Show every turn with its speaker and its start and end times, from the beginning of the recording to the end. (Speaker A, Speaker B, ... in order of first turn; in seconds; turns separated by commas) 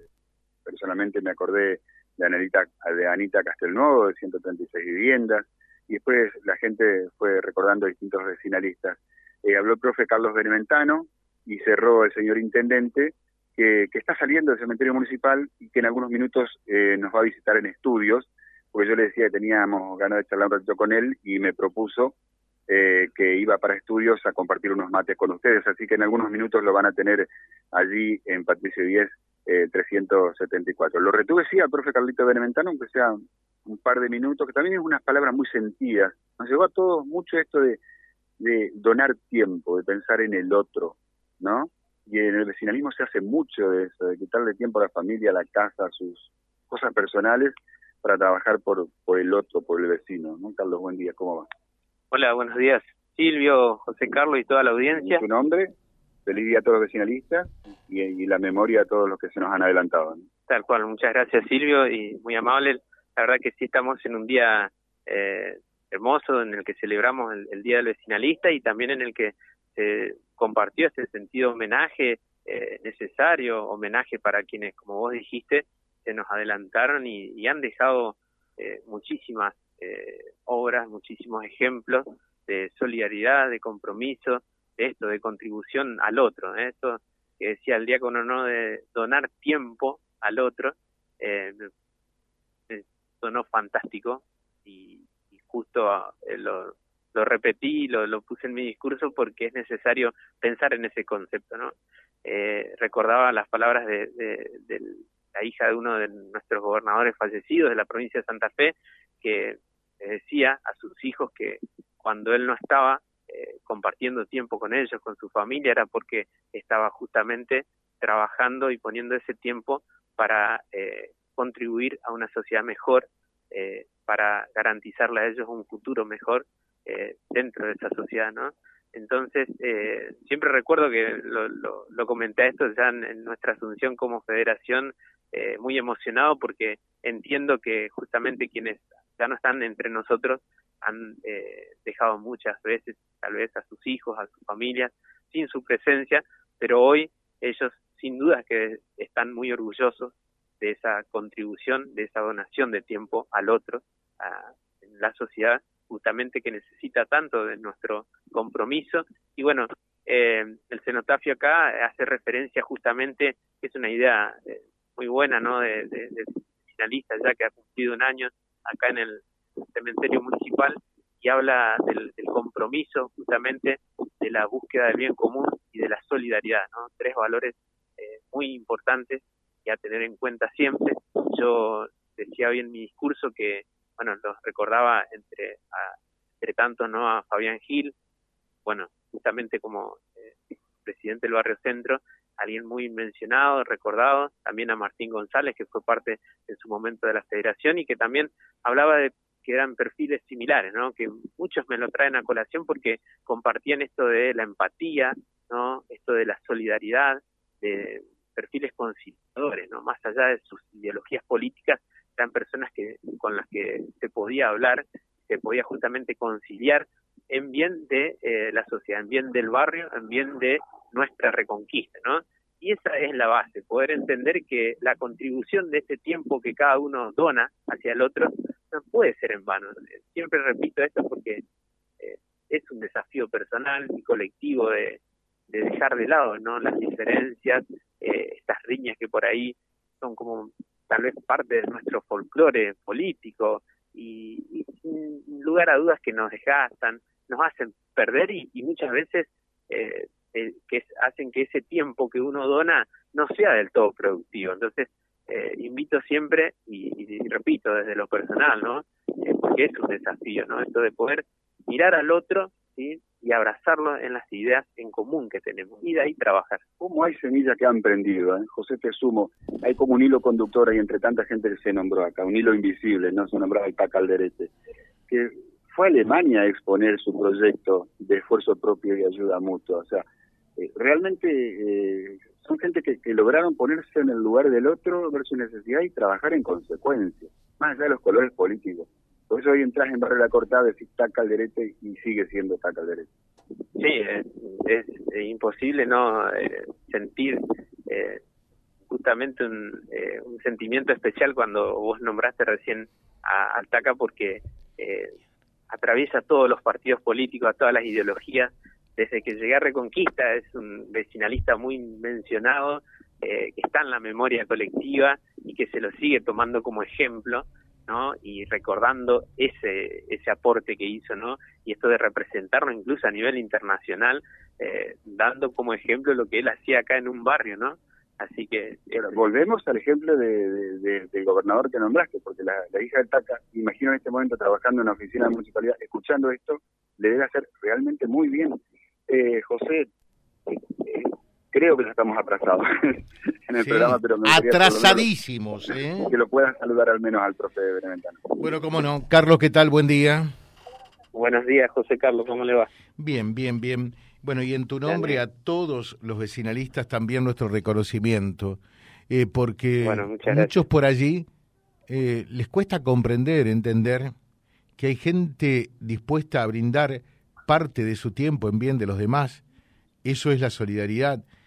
Speaker A: 0.6-22.1, Speaker A: 22.7-37.8, Speaker A: 38.4-51.5, Speaker B: 52.1-55.2, Speaker A: 55.0-55.7, Speaker A: 56.2-60.2, Speaker B: 60.5-91.7, Speaker B: 92.7-101.7, Speaker B: 102.2-187.9, Speaker B: 188.7-231.4, Speaker B: 232.0-266.6, Speaker A: 266.8-274.5, Speaker A: 275.1-280.0, Speaker A: 280.6-293.1, Speaker B: 293.8-298.2, Speaker B: 298.9-305.1, Speaker B: 305.7-329.2, Speaker A: 328.9-339.9, Speaker A: 340.5-345.1, Speaker C: 343.6-346.1, Speaker A: 346.1-348.4, Speaker C: 348.4-350.3, Speaker B: 351.1-352.7, Speaker C: 352.9-361.2, Speaker B: 354.9-355.2, Speaker B: 359.8-360.6, Speaker C: 361.9-364.1, Speaker C: 364.8-369.4, Speaker C: 370.0-371.2